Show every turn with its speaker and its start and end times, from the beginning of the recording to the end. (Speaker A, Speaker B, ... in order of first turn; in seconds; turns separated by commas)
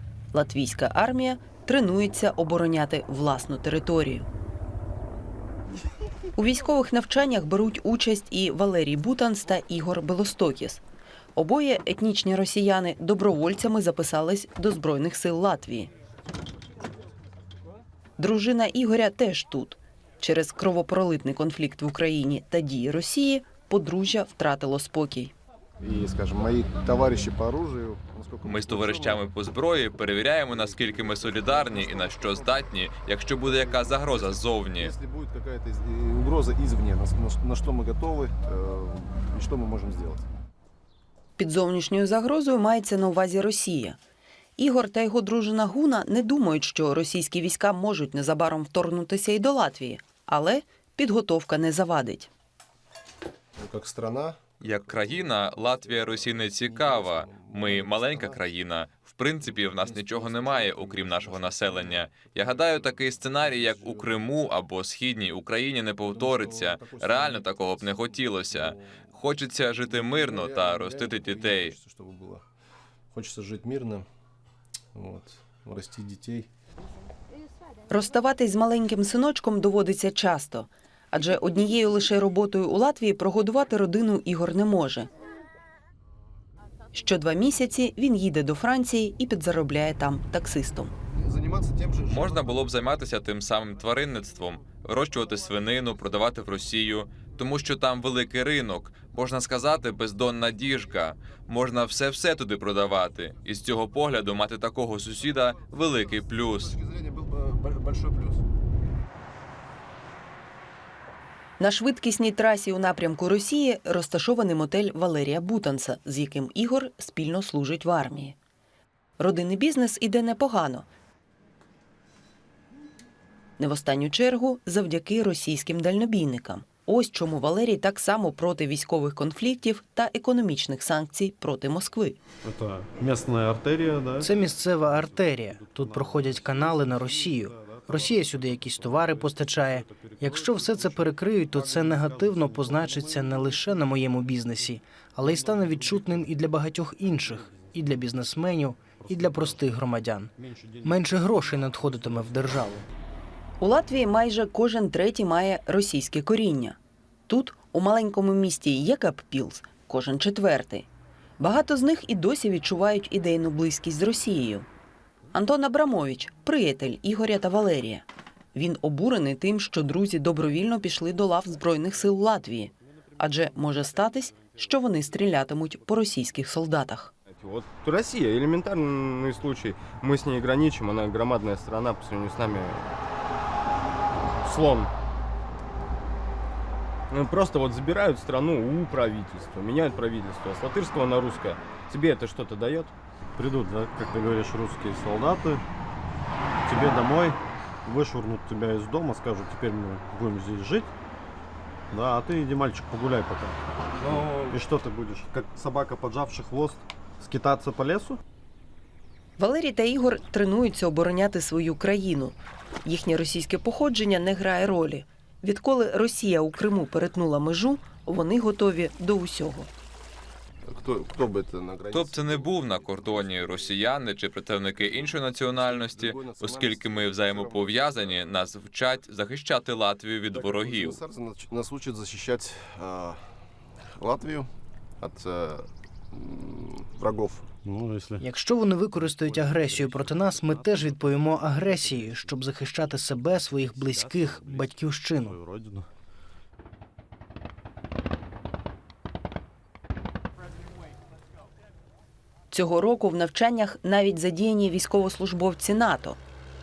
Speaker A: 0.3-4.3, Speaker A: 6.4-10.8, Speaker A: 11.3-15.9, Speaker A: 18.2-25.3, Speaker B: 25.8-29.2, Speaker C: 28.4-35.0, Speaker B: 30.5-32.7, Speaker B: 33.4-40.3, Speaker A: 41.4-44.0, Speaker A: 44.6-52.3, Speaker B: 53.6-58.4, Speaker C: 54.6-71.8, Speaker B: 59.4-64.3, Speaker B: 66.0-69.1, Speaker B: 69.8-72.5, Speaker B: 73.1-74.1, Speaker B: 75.0-76.5, Speaker A: 77.9-85.1, Speaker A: 86.9-90.9, Speaker B: 91.1-92.7, Speaker C: 92.1-106.8, Speaker B: 105.8-108.4, Speaker A: 111.6-118.4, Speaker A: 119.2-120.9, Speaker A: 123.6-132.2, Speaker D: 132.4-146.5, Speaker E: 134.2-152.8, Speaker D: 147.1-148.1, Speaker D: 148.9-149.7, Speaker D: 150.4-152.6, Speaker A: 153.6-156.8, Speaker A: 157.3-160.9, Speaker A: 161.4-164.7, Speaker A: 165.3-177.1, Speaker F: 177.3-183.0, Speaker F: 184.4-184.9, Speaker F: 187.1-192.9, Speaker D: 193.3-195.7, Speaker D: 196.7-200.9, Speaker D: 201.9-203.6, Speaker D: 204.1-208.2, Speaker A: 209.4-219.7, Speaker B: 220.7-223.8, Speaker C: 221.9-231.0, Speaker B: 224.8-228.3, Speaker B: 230.3-233.3, Speaker B: 233.9-237.5, Speaker D: 237.7-238.2, Speaker E: 238.2-245.4, Speaker D: 238.9-242.4, Speaker D: 243.2-244.7, Speaker D: 245.2-245.9, Speaker A: 252.5-256.2